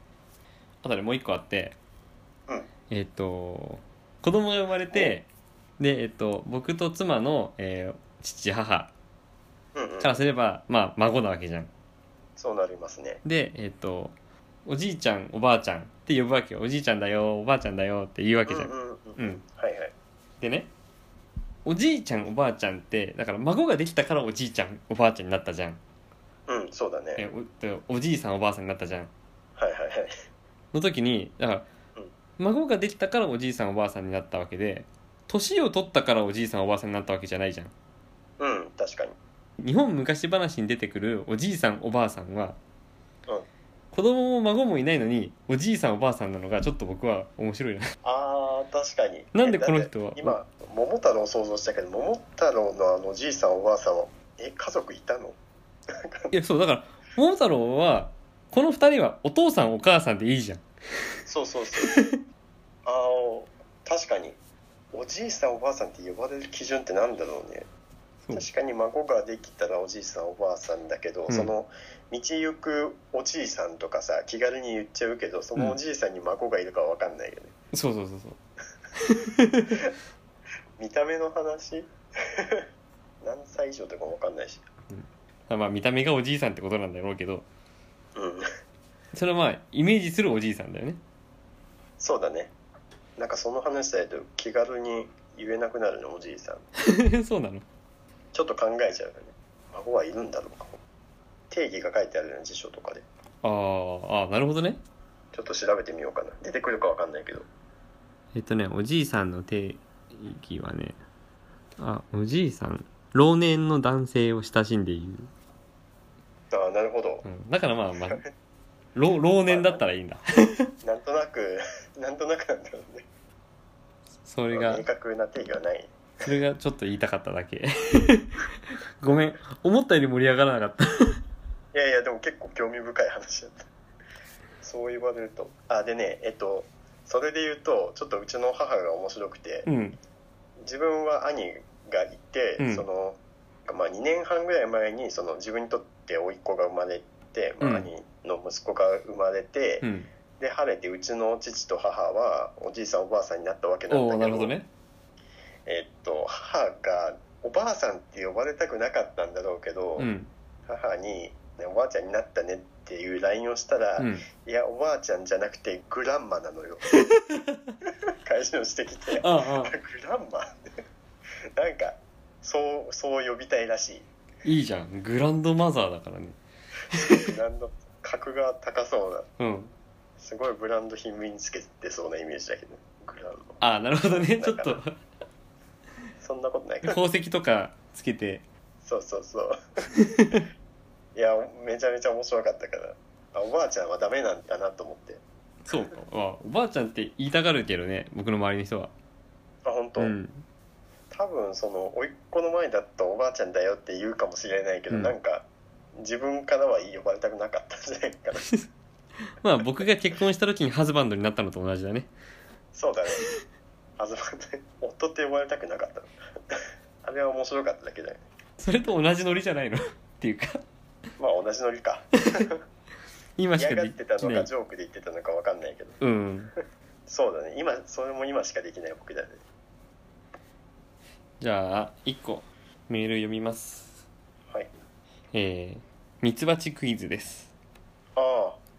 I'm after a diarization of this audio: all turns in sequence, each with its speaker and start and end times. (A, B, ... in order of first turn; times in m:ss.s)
0:00.8-0:01.8 A
0:02.9-0:05.3 A
0:05.8-0:08.9 A
0:09.7-0:10.2 B
0:10.0-0:11.7 A
0:12.4-0:13.2 B
0:13.2-0:14.1 A
0:14.6-0:19.4 A
0:18.4-0:19.9 B
0:20.4-0:20.7 A
0:21.6-0:25.8 A
0:26.5-0:27.2 B
0:27.2-0:29.1 A
0:29.6-0:30.2 B
0:30.7-0:31.7 A
0:32.4-0:37.7 A
0:38.4-0:39.2 B
0:39.6-0:42.6 A
0:43.9-0:47.9 A
0:48.0-0:55.4 B
0:49.3-0:50.4 A
0:55.9-0:56.3 B
0:56.3-1:00.6 A
1:01.2-1:01.9 B
1:01.9-1:02.2 A
1:02.8-1:04.4 B
1:04.9-1:07.7 B
1:08.3-1:17.5 B
1:17.7-1:18.4 A
1:19.0-1:19.8 A
1:20.8-1:22.6 B
1:23.2-1:24.6 B
1:24.9-1:27.4 A
1:28.2-1:28.5 B
1:29.1-1:31.0 A
1:32.0-1:32.5 B
1:33.2-1:36.6 B
1:36.8-1:37.6 A
1:38.3-1:40.8 B
1:41.5-1:43.0 B
1:43.4-1:44.8 A
1:45.3-1:47.4 B
1:48.3-1:51.0 A
1:51.8-1:55.3 A
1:56.5-1:57.2 B
1:57.2-1:58.2 A
1:58.9-2:00.7 A
1:59.4-1:59.8 B
2:00.8-2:03.0 B
2:04.2-2:04.8 A
2:04.5-2:05.9 B
2:06.2-2:08.5 A
2:09.0-2:11.2 A
2:11.7-2:13.6 B
2:14.6-2:19.7 B
2:19.6-2:20.0 A
2:20.6-2:29.8 B
2:22.6-2:22.8 A
2:27.6-2:27.9 A
2:29.8-2:30.1 A
2:30.4-2:34.5 B
2:33.9-2:34.7 A
2:35.6-2:40.1 B
2:40.0-2:40.3 A
2:40.7-2:47.1 B
2:44.0-2:44.2 A
2:48.1-2:50.7 B
2:49.1-2:49.7 A
2:51.6-2:54.0 B
2:54.4-2:56.4 A
2:56.9-2:57.2 A
2:56.9-2:59.3 B
2:59.4-2:59.7 A
3:00.2-3:04.8 B
3:03.6-3:04.9 A
3:06.2-3:07.0 B
3:06.8-3:08.4 A
3:08.8-3:09.6 B
3:09.9-3:10.4 A
3:11.1-3:15.2 B
3:15.6-3:18.9 A
3:19.6-3:20.2 B
3:20.0-3:20.4 A
3:21.1-3:28.5 B
3:29.4-3:32.1 A
3:32.7-3:33.2 B
3:34.0-3:38.2 B
3:38.6-3:40.6 A
3:41.2-3:42.6 B
3:43.4-3:44.5 A
3:43.6-3:46.0 B
3:46.0-3:46.5 A
3:47.1-3:49.4 B
3:51.4-3:54.0 A
3:55.3-3:57.5 A
3:58.2-3:58.6 B